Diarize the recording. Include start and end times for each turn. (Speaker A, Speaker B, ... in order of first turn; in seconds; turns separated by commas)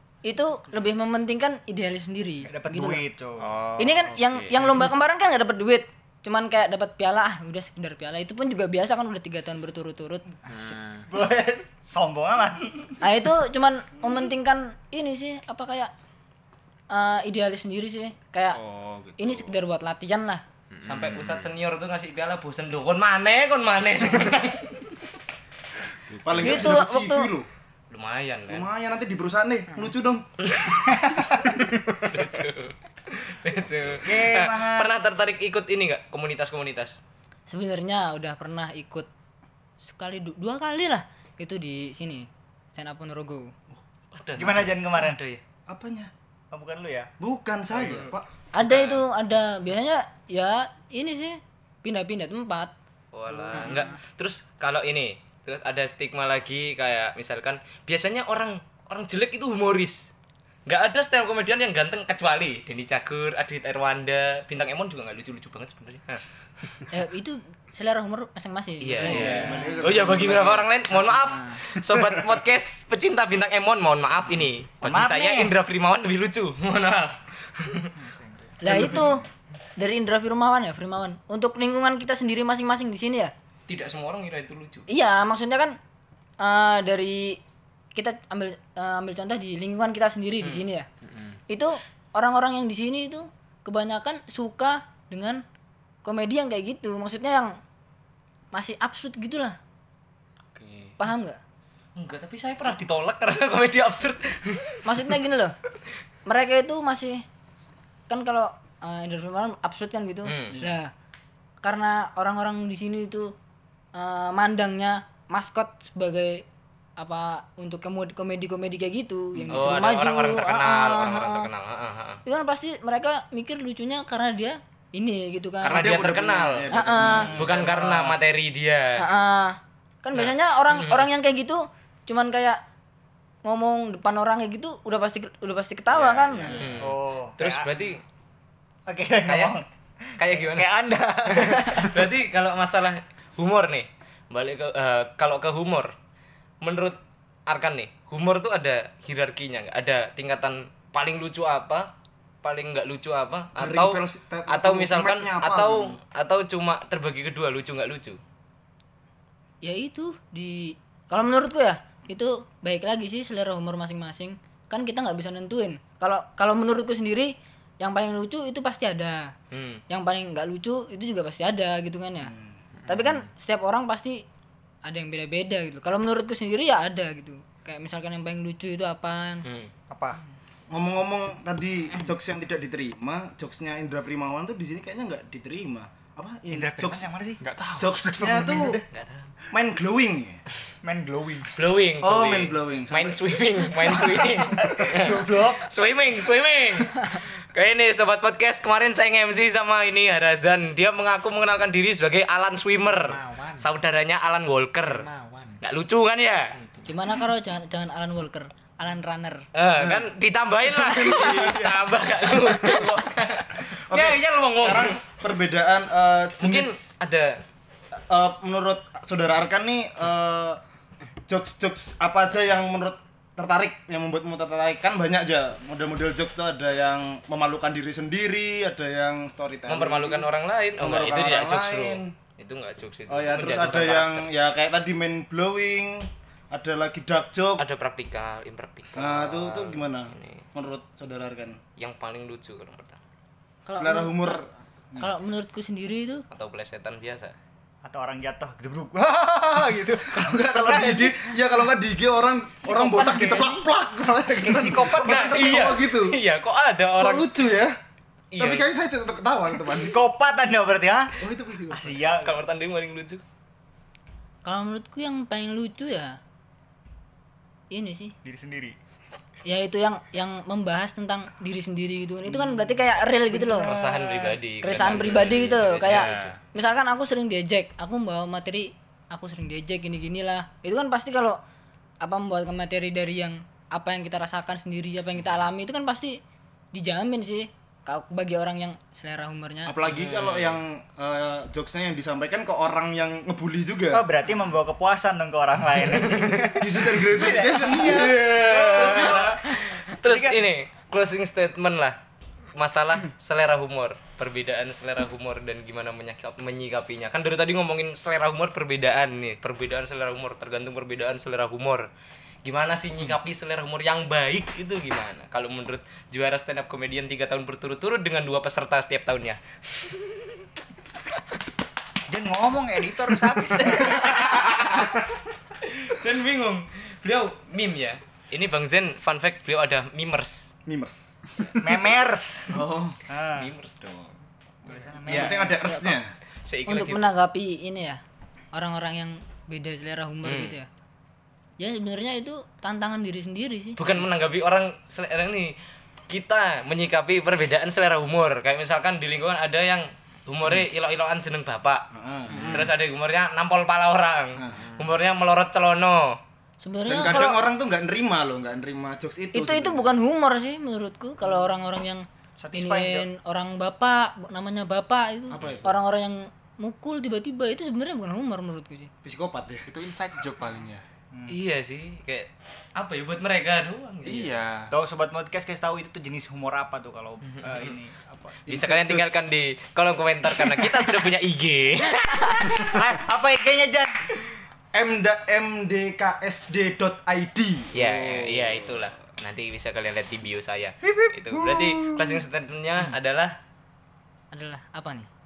Speaker A: 0.2-3.0, Speaker B: 2.4-3.5, Speaker C: 3.4-4.8, Speaker A: 3.8-10.8, Speaker C: 10.5-11.1, Speaker B: 11.1-13.0, Speaker A: 13.0-15.9, Speaker A: 16.9-18.6, Speaker C: 18.5-19.5, Speaker A: 19.2-20.4, Speaker C: 20.7-21.5, Speaker D: 20.8-24.9, Speaker C: 26.1-26.7, Speaker E: 26.2-27.5, Speaker A: 26.4-27.3, Speaker D: 27.9-28.7, Speaker E: 28.5-30.2, Speaker D: 30.4-37.0, Speaker B: 34.0-34.9, Speaker A: 37.5-39.1, Speaker A: 39.8-43.5, Speaker D: 44.1-45.4, Speaker B: 44.4-45.2, Speaker E: 45.7-46.1, Speaker B: 46.5-47.1, Speaker E: 47.2-48.2, Speaker A: 48.5-52.7, Speaker D: 48.6-49.0, Speaker D: 53.1-60.1, Speaker A: 53.5-54.0, Speaker D: 60.7-66.8, Speaker A: 66.9-69.8, Speaker D: 68.8-77.9, Speaker E: 69.0-70.7, Speaker A: 71.2-71.6, Speaker B: 74.8-75.5, Speaker A: 78.6-79.2, Speaker A: 79.8-83.3, Speaker D: 83.7-84.8, Speaker A: 84.9-85.8, Speaker A: 86.4-87.4, Speaker A: 87.9-90.9, Speaker C: 91.0-91.4, Speaker A: 91.5-95.4, Speaker A: 96.0-97.5, Speaker A: 98.5-99.5, Speaker C: 100.5-100.9, Speaker A: 101.0-101.4, Speaker D: 102.0-105.0, Speaker A: 104.8-105.5, Speaker A: 106.2-107.2, Speaker A: 108.1-110.9, Speaker D: 110.2-110.6, Speaker A: 111.6-113.3, Speaker A: 113.9-116.4, Speaker A: 117.0-121.5, Speaker E: 119.3-119.7, Speaker D: 119.5-122.2, Speaker A: 122.2-125.8, Speaker D: 125.6-129.0, Speaker E: 125.6-128.1, Speaker A: 126.7-127.3, Speaker B: 127.0-127.7, Speaker A: 129.0-132.6, Speaker D: 130.1-131.1, Speaker A: 133.4-136.7, Speaker D: 135.9-138.0, Speaker B: 136.6-137.7, Speaker B: 138.9-139.6, Speaker D: 139.2-139.6, Speaker D: 140.2-140.7, Speaker B: 140.2-142.0, Speaker D: 141.3-145.9, Speaker D: 146.6-151.9, Speaker D: 152.4-158.2, Speaker E: 153.5-156.0, Speaker A: 159.6-169.2, Speaker D: 169.5-169.8, Speaker A: 169.9-172.3, Speaker C: 172.9-173.2, Speaker A: 172.9-174.2, Speaker A: 174.8-179.4, Speaker D: 179.4-179.7, Speaker B: 179.9-180.2, Speaker E: 180.7-187.1, Speaker B: 186.5-187.4, Speaker C: 187.4-188.3, Speaker E: 187.8-188.8, Speaker B: 188.1-188.8, Speaker D: 188.9-189.3, Speaker E: 189.5-190.4, Speaker B: 190.8-191.5, Speaker D: 191.6-205.1, Speaker E: 192.0-193.2, Speaker B: 194.6-195.7, Speaker C: 202.8-203.7, Speaker C: 204.8-205.6, Speaker D: 205.6-206.6, Speaker A: 206.9-209.4, Speaker D: 209.5-215.0, Speaker E: 209.8-210.1, Speaker E: 210.7-211.9, Speaker E: 212.7-213.0, Speaker E: 213.9-216.8, Speaker D: 216.4-217.4, Speaker E: 217.9-220.6, Speaker E: 221.3-232.1, Speaker D: 229.7-234.3, Speaker E: 233.1-237.6, Speaker D: 237.6-240.4, Speaker E: 238.9-241.6, Speaker D: 241.8-243.0, Speaker A: 243.7-244.3, Speaker E: 243.8-245.1, Speaker A: 245.0-246.2, Speaker D: 246.3-247.3, Speaker B: 247.8-251.2, Speaker E: 250.0-256.1, Speaker B: 252.6-253.7, Speaker B: 254.4-255.5, Speaker D: 255.0-257.3, Speaker E: 257.0-257.7, Speaker D: 258.3-258.7, Speaker E: 258.4-260.0, Speaker B: 259.7-261.2, Speaker E: 261.2-262.0, Speaker B: 261.7-262.4, Speaker D: 262.2-263.2, Speaker A: 264.4-266.2, Speaker A: 267.7-268.1, Speaker B: 268.2-268.8, Speaker A: 269.4-273.7, Speaker B: 272.3-272.7, Speaker B: 273.2-274.4, Speaker D: 273.6-276.3, Speaker A: 274.6-281.4, Speaker C: 275.8-276.4, Speaker A: 282.0-286.2, Speaker A: 286.7-289.8, Speaker E: 289.6-294.0, Speaker D: 289.9-290.6, Speaker B: 293.9-299.5, Speaker E: 295.9-299.4, Speaker D: 298.7-302.0, Speaker B: 300.0-300.4, Speaker D: 302.6-311.9, Speaker D: 312.4-320.1, Speaker B: 322.1-324.1, Speaker D: 323.5-325.0, Speaker D: 325.6-330.5, Speaker E: 330.6-331.1, Speaker B: 331.6-332.6, Speaker E: 332.5-333.0, Speaker B: 333.1-333.5, Speaker D: 333.3-334.2, Speaker B: 334.6-335.6, Speaker E: 335.1-336.1, Speaker D: 335.1-335.4, Speaker A: 335.6-336.0, Speaker D: 336.4-337.1, Speaker A: 336.7-338.0, Speaker A: 338.5-340.7, Speaker D: 340.2-340.5, Speaker A: 341.6-343.9, Speaker D: 343.8-345.6, Speaker D: 346.1-351.8, Speaker E: 351.9-352.7, Speaker A: 352.3-352.7, Speaker D: 352.4-356.2, Speaker E: 354.4-354.6, Speaker C: 354.6-354.9, Speaker A: 356.6-357.4, Speaker E: 356.9-359.9, Speaker A: 359.3-368.9, Speaker B: 362.4-363.1, Speaker E: 365.3-365.8, Speaker E: 369.0-369.6, Speaker C: 369.7-370.9, Speaker D: 371.3-374.4, Speaker C: 374.0-374.7, Speaker B: 374.7-378.4, Speaker D: 377.3-377.7, Speaker D: 378.4-382.8, Speaker E: 378.5-379.1, Speaker B: 380.3-380.8, Speaker B: 382.5-383.9, Speaker E: 384.7-388.6, Speaker D: 387.7-393.4, Speaker B: 390.8-392.2, Speaker A: 394.3-395.1